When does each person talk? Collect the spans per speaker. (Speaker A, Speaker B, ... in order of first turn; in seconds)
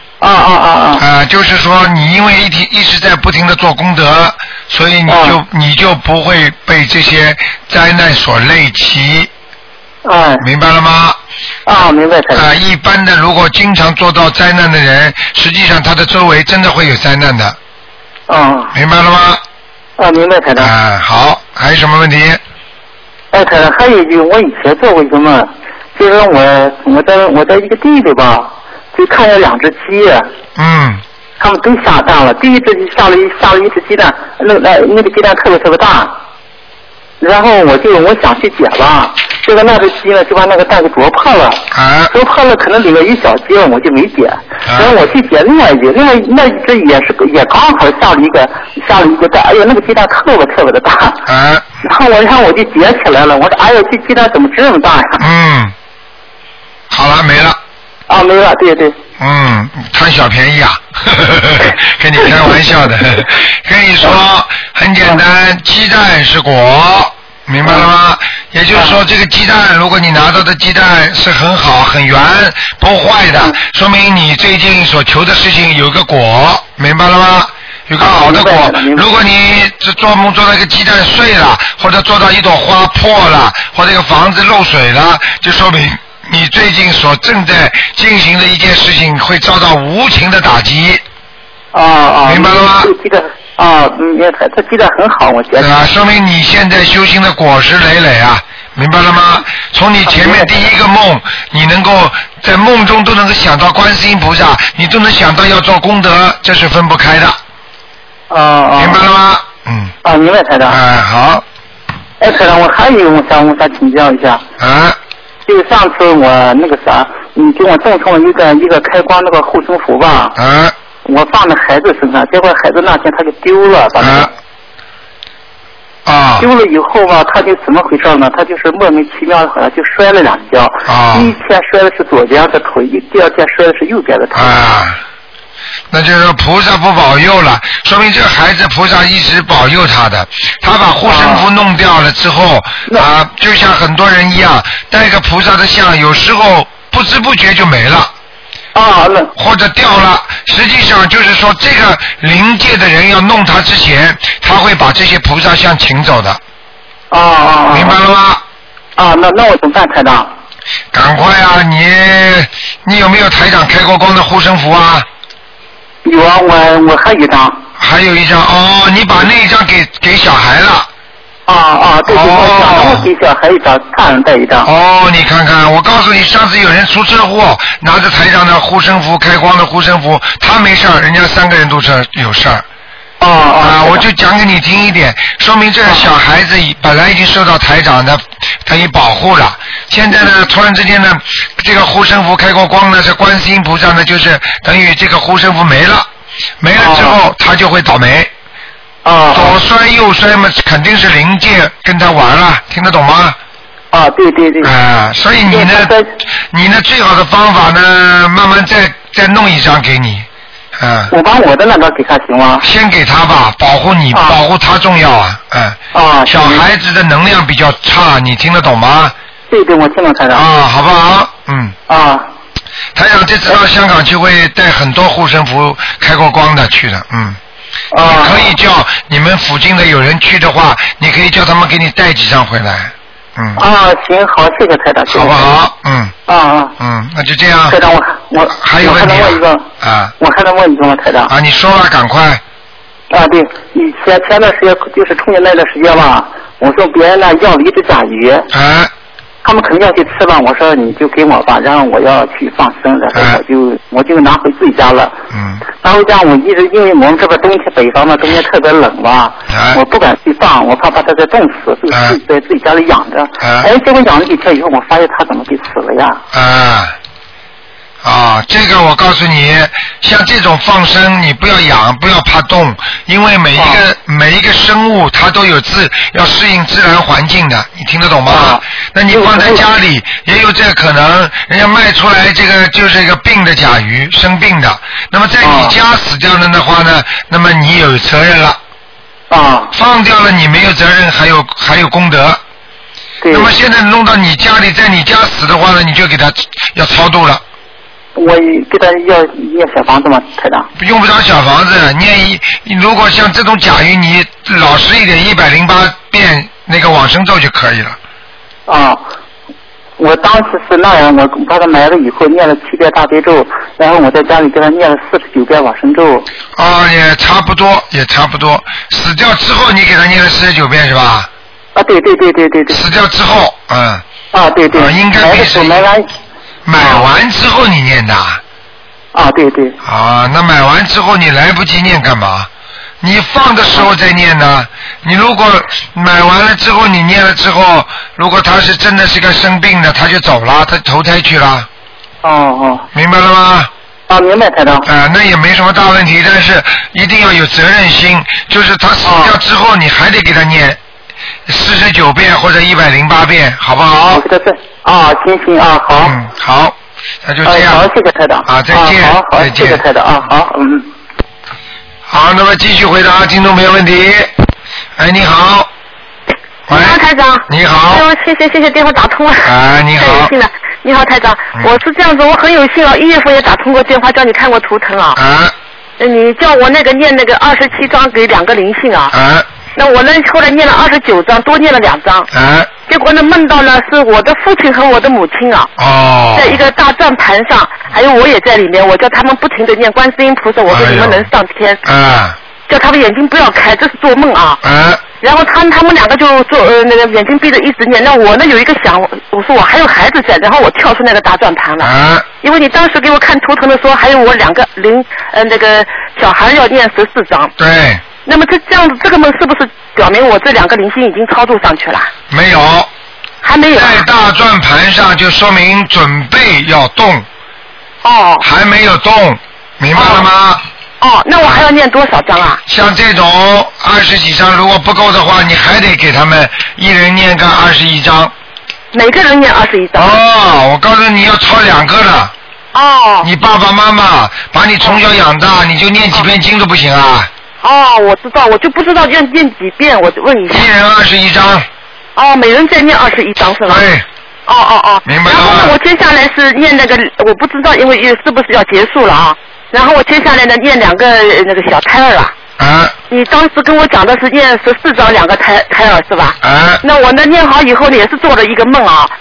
Speaker A: 0.2-1.0, 5.1-5.3, 10.0-10.4, 11.7-12.4, 18.3-18.7, 20.0-20.7, 23.3-30.3, 31.4-36.1, 37.2-51.2, 51.8-55.2, 58.1-59.0, 67.6-67.9, 68.7-69.0, 78.0-79.0, 91.7-95.9, 100.0-100.7, 108.3-109.0, 110.0-110.8, 112.2-114.4, 115.5-120.3, 121.0-124.3, 126.4-134.7, 141.0-141.5, 148.7-149.3, 157.1-158.0, 159.0-160.3, 166.0-167.6, 171.5-174.7, 183.2-184.0, 196.8-197.2, 199.0-199.6, 203.9-204.7, 205.5-206.1, 211.1-212.6, 214.1-214.4, 215.9-216.6, 219.5-220.4, 221.9-222.3, 227.9-228.5, 233.6-235.5, 236.3-236.7, 237.7-239.6, 240.2-241.3, 243.1-248.5, 249.4-255.2, 255.8-266.2, 273.6-273.8, 278.3-279.6, 285.4-285.7, 289.3-289.7, 293.2-293.5, 298.1-300.7, 308.7-309.0, 310.0-316.3, 321.7-322.8, 324.3-326.1, 326.8-327.1, 329.1-329.8, 342.2-342.9, 344.1-344.9, 349.0-349.3, 354.1-356.1, 357.4-360.9
Speaker B: 1.0-9.3, 10.4-11.2, 12.3-17.6, 18.7-19.4, 20.6-22.4, 30.6-31.0, 41.7-42.1, 44.6-45.0, 51.3-51.6, 55.2-55.7, 56.9-57.6, 59.2-91.0, 92.2-92.9, 95.6-107.4, 108.8-109.9, 110.7-111.4, 114.6-115.0, 120.3-120.7, 124.0-124.3, 126.0-126.5, 130.8-131.3, 134.3-135.0, 135.9-148.1, 149.3-156.4, 157.7-158.4, 160.9-165.1, 167.8-170.9, 172.1-173.1, 174.6-182.6, 183.6-196.1, 196.6-198.3, 199.3-203.4, 204.6-205.9, 206.5-210.2, 210.8-211.1, 212.6-219.1, 220.3-221.8, 222.9-227.4, 228.0-233.6, 235.1-236.1, 236.8-237.8, 238.6-240.1, 241.3-242.4, 248.5-248.9, 253.1-253.4, 255.3-255.6, 259.5-259.8, 261.9-262.2, 263.4-263.7, 266.3-266.9, 268.0-288.6, 289.7-292.4, 293.3-297.4, 300.8-308.0, 316.6-321.3, 322.7-324.0, 324.7-325.9, 326.6-328.4, 329.8-332.5, 333.0-341.7, 342.9-343.7, 344.8-350.8, 351.5-354.2, 356.0-357.9, 358.4-359.8, 362.1-364.3, 365.0-365.7, 366.7-368.0, 369.4-370.3, 375.1-375.5, 379.1-379.5, 382.3-382.7, 385.8-386.6, 390.7-391.3, 391.8-392.4, 394.6-395.0, 401.8-402.2, 407.6-408.0, 412.3-412.9, 413.7-417.3, 418.4-420.6, 422.6-428.3, 429.9-432.3, 433.2-437.3, 440.5-441.7, 443.6-444.0, 445.0-445.8, 452.6-452.9, 456.4-456.8
Speaker C: 366.7-375.2, 376.0-379.1, 379.8-382.3, 382.9-385.7, 386.3-391.8, 392.7-394.6, 395.2-407.5, 408.2-412.1, 413.4-414.1, 418.0-418.4, 419.9-420.2, 421.0-422.6, 428.9-430.1, 432.7-433.3, 437.6-440.7, 442.1-443.9, 444.5-452.3, 453.1-459.1